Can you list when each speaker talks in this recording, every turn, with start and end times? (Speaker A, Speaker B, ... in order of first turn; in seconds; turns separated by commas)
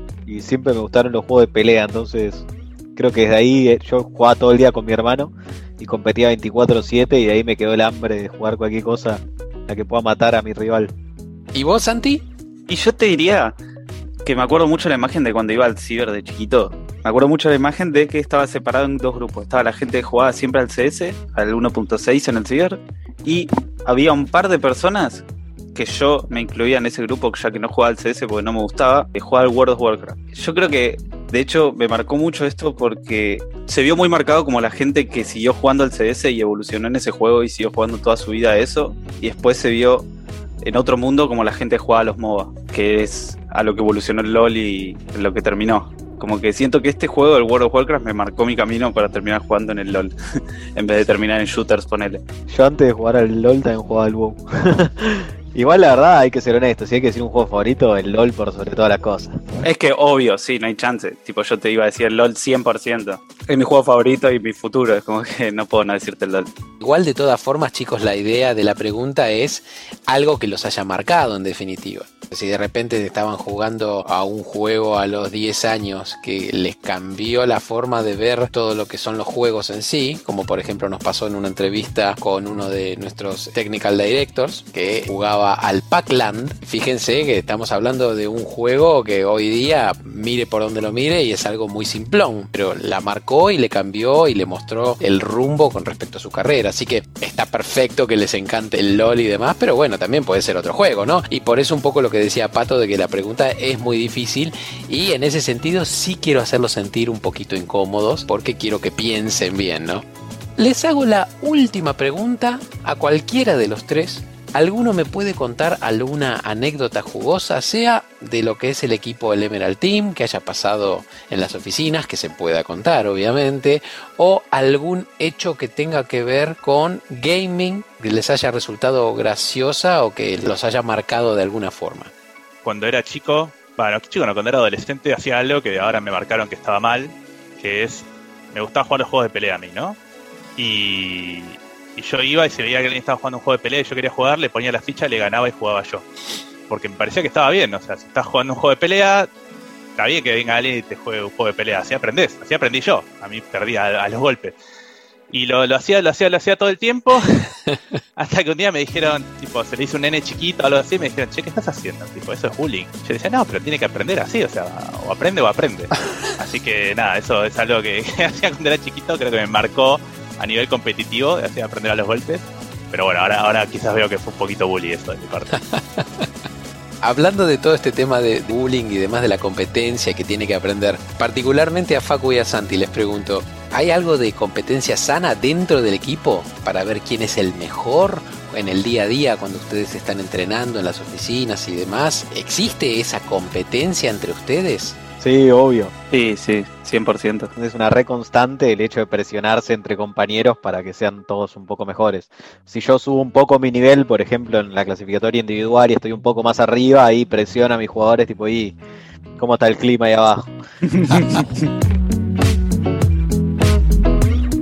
Speaker A: 0.3-10.9, Speaker B: 11.5-12.2, Speaker C: 12.7-13.6, Speaker C: 14.2-40.1, Speaker C: 40.6-50.1, Speaker C: 50.8-52.2, Speaker A: 52.5-59.4, Speaker C: 59.6-66.5, Speaker B: 66.8-110.0, Speaker B: 110.6-132.1, Speaker D: 132.6-140.0, Speaker D: 140.6-146.1, Speaker D: 146.7-149.3, Speaker D: 150.0-154.6, Speaker D: 155.3-157.3, Speaker D: 158.2-175.6, Speaker B: 175.5-176.3, Speaker B: 177.0-195.0, Speaker A: 195.2-195.9, Speaker C: 196.1-197.5, Speaker A: 197.6-208.8, Speaker A: 209.4-210.5, Speaker C: 211.0-211.4